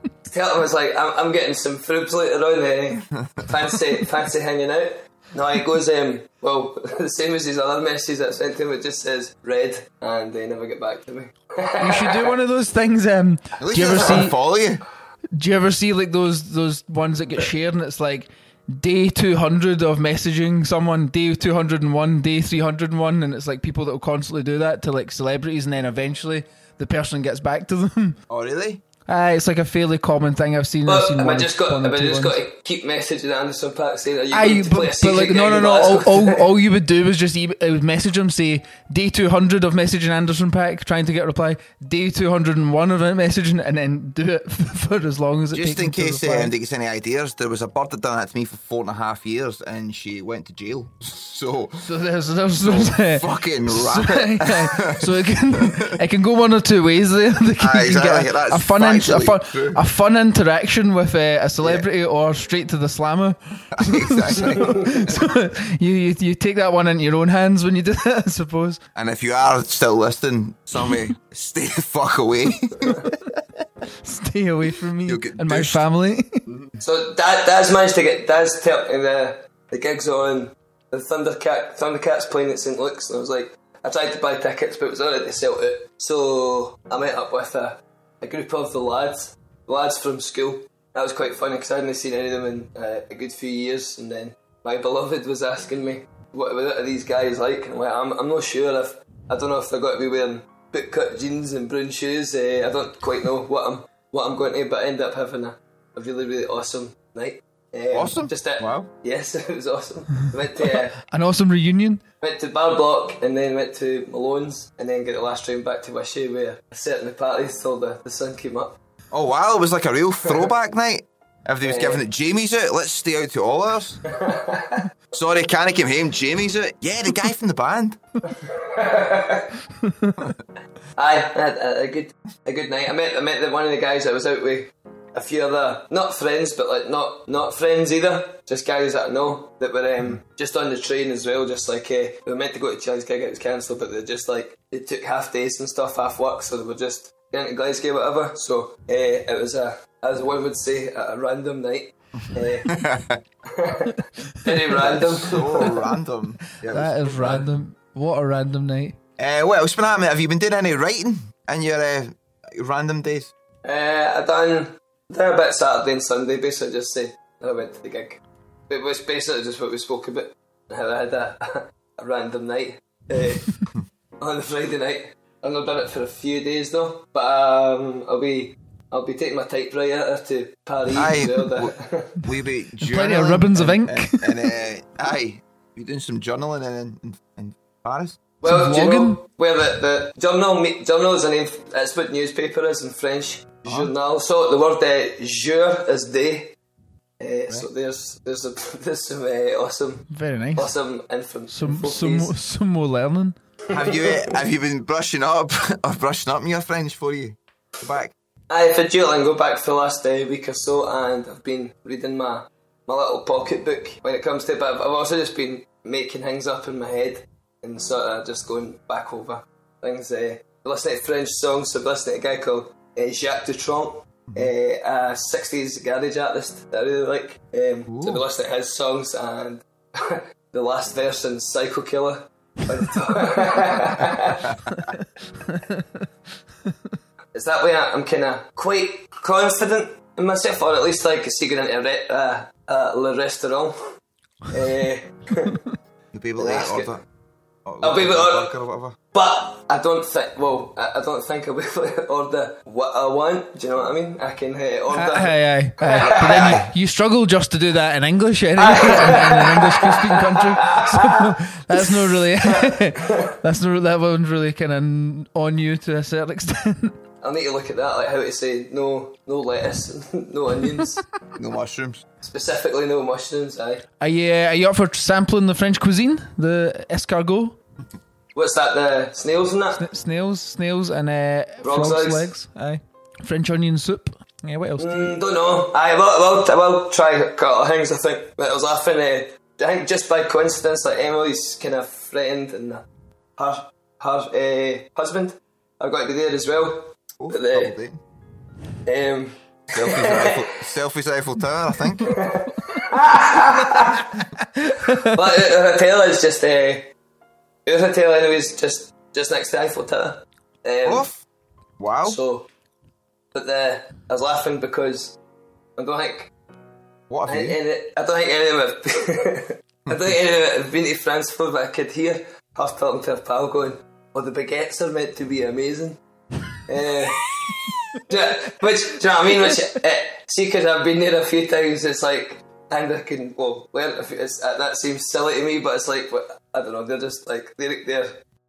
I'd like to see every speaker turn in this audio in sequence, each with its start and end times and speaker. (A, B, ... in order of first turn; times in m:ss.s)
0:00.3-0:12.4 A
0:11.8-0:14.4 B
0:13.6-0:14.8 C
0:15.4-0:28.2 B
0:28.3-0:28.8 C
0:29.1-0:32.4 B
0:30.9-0:36.4 A
0:34.3-0:46.5 B
0:45.5-0:51.9 C
0:51.8-1:08.8 B
0:52.6-0:56.0 C
0:57.6-0:59.8 C
1:03.8-1:05.2 C
1:09.0-1:13.1 C
1:14.0-1:16.4 B
1:15.0-1:15.8 C
1:16.5-1:16.8 C
1:16.8-1:51.0 A
1:47.9-1:48.9 C
1:51.0-1:52.0 B
1:52.2-1:58.8 A
1:59.1-2:04.0 C
2:01.6-2:02.0 A
2:04.1-2:04.9 A
2:05.1-2:08.0 C
2:08.3-2:09.5 A
2:09.8-2:10.2 B
2:11.0-2:32.7 A
2:32.7-2:33.2 C
2:33.5-2:35.8 A
2:34.8-2:37.4 C
2:36.6-2:39.0 B
2:39.2-2:43.3 C
2:43.6-2:53.6 A
2:54.2-3:02.1 A
3:00.9-3:08.2 C
3:02.8-3:04.3 B
3:08.4-3:16.6 A
3:08.4-3:09.2 B
3:13.6-3:13.9 C
3:17.2-3:22.3 A
3:20.1-3:20.7 B
3:21.5-3:23.4 B
3:23.7-3:24.2 A
3:23.7-3:28.1 C
3:28.5-3:54.5 A
3:47.9-3:48.2 C
3:54.7-3:56.1 B
3:57.3-4:03.8 A
4:04.5-4:05.6 A
4:06.1-4:07.0 C
4:06.4-4:06.9 A
4:07.6-4:09.0 C
4:07.8-4:08.5 A
4:09.1-4:16.6 A
4:14.9-4:26.9 B
4:16.0-4:16.7 C
4:18.6-4:23.3 A
4:27.2-4:31.0 A
4:31.4-4:32.0 C
4:32.2-4:33.8 A
4:34.0-4:37.6 B
4:38.4-4:39.8 A
4:39.8-4:45.1 B
4:41.6-4:42.3 A
4:44.8-4:52.8 A
4:53.4-4:57.7 A
4:57.2-4:58.0 C
4:58.9-5:00.5 A
4:59.7-5:02.1 C
5:02.1-5:04.1 A
5:04.6-5:05.2 B
5:05.0-5:06.9 A
5:07.7-5:11.1 A
5:10.8-5:11.2 C
5:11.8-5:12.2 C
5:12.0-5:12.5 A
5:13.3-5:15.2 A
5:15.8-5:16.3 A
5:17.1-5:17.6 C
5:17.3-5:26.0 A
5:19.9-5:20.1 C
5:26.7-5:27.2 A
5:28.1-5:38.2 A